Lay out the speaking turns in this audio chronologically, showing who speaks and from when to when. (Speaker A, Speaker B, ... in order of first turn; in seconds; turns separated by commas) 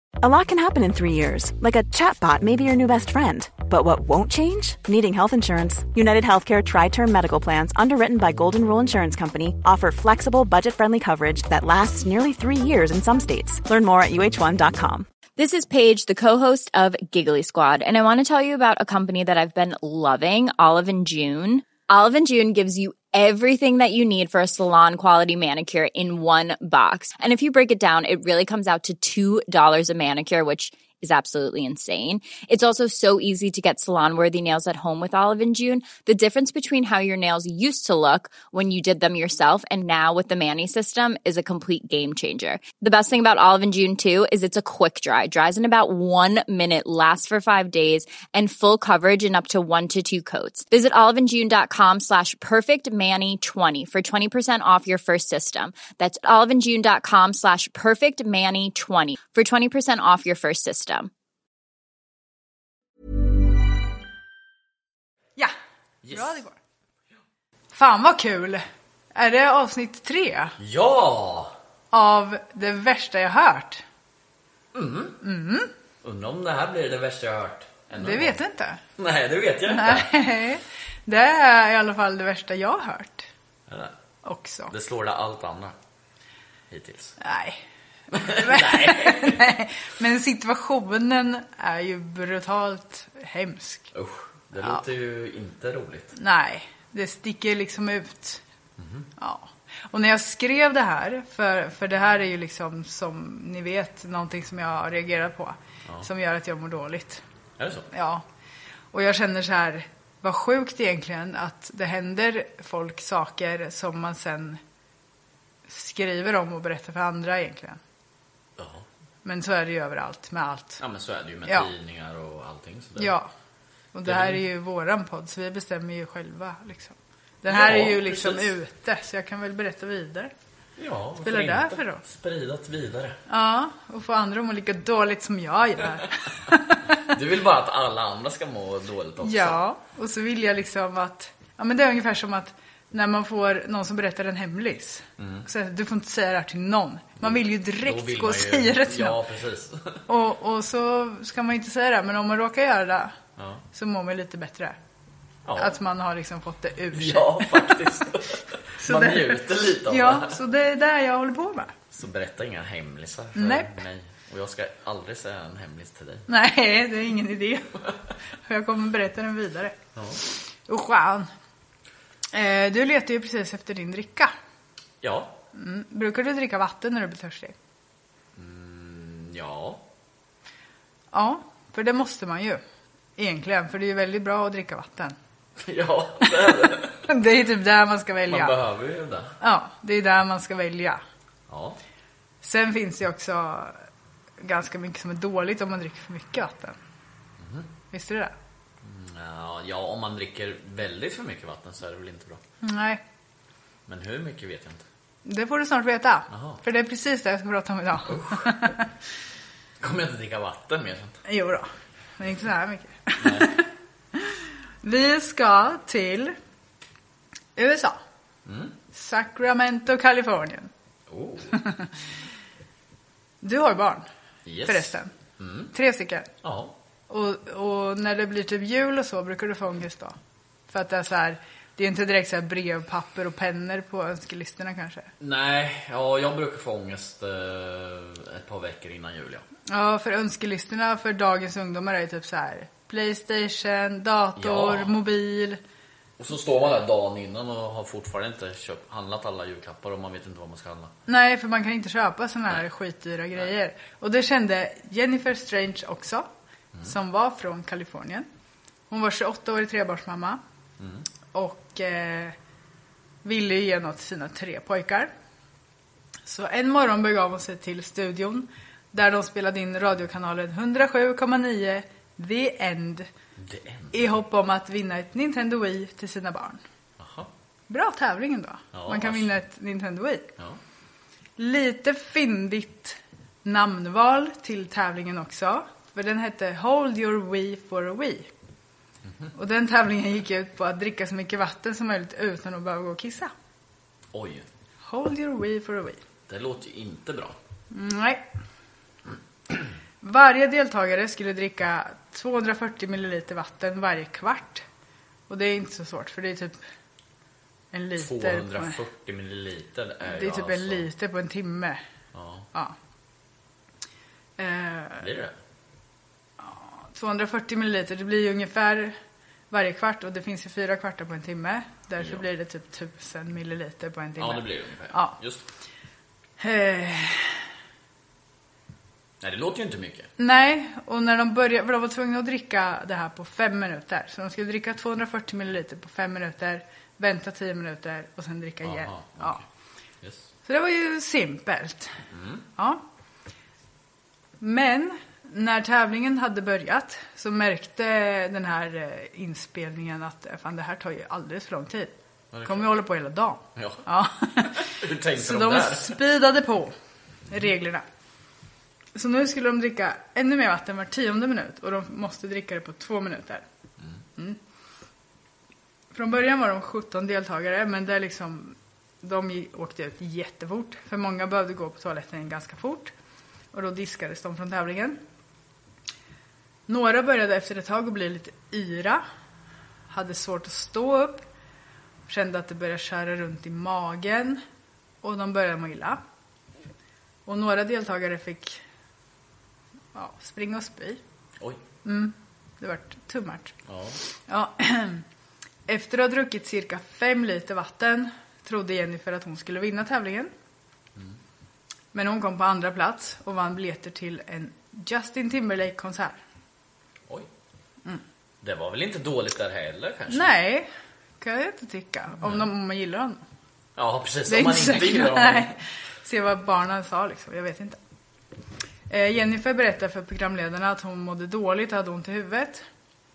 Speaker A: 0.2-15.1, Speaker B: 15.4-61.1, Speaker C: 66.0-66.4, Speaker D: 66.1-66.5, Speaker D: 67.7-68.6, Speaker D: 69.1-70.5, Speaker C: 70.6-71.5, Speaker D: 71.9-73.8, Speaker C: 74.7-75.2, Speaker D: 75.2-75.7, Speaker C: 76.0-78.4, Speaker D: 77.9-78.8, Speaker C: 79.0-80.1, Speaker D: 79.7-83.3, Speaker C: 83.7-83.9, Speaker D: 84.2-84.7, Speaker C: 84.7-85.7, Speaker C: 86.7-87.2, Speaker D: 87.2-87.6, Speaker C: 88.1-89.4, Speaker D: 88.1-93.9, Speaker C: 93.9-96.1, Speaker D: 96.2-98.4, Speaker C: 98.8-99.1, Speaker D: 99.2-107.2, Speaker C: 107.6-107.9, Speaker D: 107.9-108.2, Speaker D: 108.9-114.6, Speaker D: 115.7-117.8, Speaker C: 118.6-118.8, Speaker D: 119.2-120.8, Speaker C: 120.8-123.1, Speaker D: 123.0-123.3, Speaker D: 123.9-130.3, Speaker C: 124.0-124.4, Speaker C: 127.5-128.5, Speaker C: 130.8-133.2, Speaker D: 131.2-132.0, Speaker D: 133.3-137.1, Speaker C: 137.1-139.6, Speaker D: 139.2-149.2, Speaker C: 145.2-145.5, Speaker C: 147.2-150.0, Speaker D: 150.1-153.1, Speaker C: 153.4-153.6, Speaker D: 153.7-154.8, Speaker C: 155.4-155.8, Speaker D: 155.6-158.1, Speaker C: 156.9-160.4, Speaker D: 158.8-161.7, Speaker C: 161.9-166.3, Speaker D: 163.3-163.7, Speaker D: 166.3-167.9, Speaker D: 168.4-171.3, Speaker C: 169.9-170.2, Speaker D: 172.3-174.3, Speaker C: 175.0-175.4, Speaker D: 175.5-177.5, Speaker C: 178.3-179.8, Speaker D: 181.1-182.6, Speaker D: 183.2-185.2, Speaker C: 185.6-187.1, Speaker D: 186.2-188.6, Speaker C: 188.3-189.3, Speaker D: 189.4-191.0, Speaker C: 191.5-191.8, Speaker D: 192.4-193.8, Speaker D: 194.4-196.8, Speaker C: 197.4-197.7, Speaker D: 197.9-198.3, Speaker C: 198.8-202.4, Speaker D: 202.6-203.0, Speaker C: 203.9-204.8, Speaker D: 205.2-208.9, Speaker C: 206.3-206.6, Speaker C: 208.1-208.6, Speaker C: 209.8-211.2, Speaker D: 211.2-216.3, Speaker C: 213.2-213.5, Speaker D: 217.6-218.0, Speaker C: 218.4-218.7, Speaker D: 218.9-220.7, Speaker C: 221.1-221.6, Speaker D: 221.5-221.9, Speaker D: 223.4-224.1, Speaker C: 224.4-225.7, Speaker D: 224.6-225.1, Speaker D: 225.7-226.3, Speaker C: 226.4-226.7, Speaker D: 227.1-230.2, Speaker D: 230.7-235.1, Speaker C: 235.2-239.4, Speaker D: 239.7-245.6, Speaker C: 244.3-244.9, Speaker C: 246.2-250.9, Speaker D: 251.1-256.3, Speaker D: 256.8-258.3, Speaker D: 258.9-260.4, Speaker C: 260.8-261.1, Speaker D: 261.3-262.4, Speaker D: 263.2-265.1, Speaker D: 266.2-273.1, Speaker C: 273.4-273.9, Speaker D: 273.9-276.6, Speaker C: 277.0-277.3, Speaker D: 277.7-280.3, Speaker C: 278.7-279.3, Speaker D: 281.4-288.3, Speaker D: 289.3-293.3, Speaker C: 294.1-294.5, Speaker D: 294.8-296.0, Speaker C: 296.3-297.4, Speaker D: 297.7-298.2, Speaker D: 300.0-304.6, Speaker D: 305.3-306.6, Speaker D: 307.7-308.8, Speaker C: 307.9-310.9, Speaker D: 310.0-311.8, Speaker C: 312.1-312.5, Speaker D: 314.4-315.1, Speaker C: 315.0-315.3, Speaker D: 316.4-318.9, Speaker D: 319.5-325.2, Speaker C: 322.0-322.2, Speaker C: 324.2-325.4, Speaker D: 326.4-327.4, Speaker C: 329.2-330.1, Speaker D: 330.2-339.4, Speaker C: 338.6-339.4, Speaker C: 340.0-340.3, Speaker D: 340.4-341.9, Speaker C: 342.1-342.4, Speaker D: 342.6-342.8, Speaker D: 344.4-351.9, Speaker C: 352.3-352.8, Speaker D: 352.4-356.7, Speaker C: 353.6-353.8, Speaker C: 354.6-356.0, Speaker D: 357.3-357.8, Speaker D: 358.9-363.4, Speaker D: 365.9-372.9, Speaker D: 373.5-375.0, Speaker D: 376.7-379.0, Speaker D: 379.9-381.2, Speaker D: 382.1-384.4, Speaker D: 385.0-386.0, Speaker D: 387.2-388.6, Speaker D: 389.9-391.0, Speaker D: 391.8-393.5, Speaker C: 393.6-394.0, Speaker D: 394.3-395.0, Speaker D: 395.7-400.3, Speaker D: 401.9-406.2, Speaker C: 408.4-410.3, Speaker D: 410.1-413.2, Speaker C: 413.8-415.6, Speaker D: 414.3-417.8, Speaker D: 418.9-422.6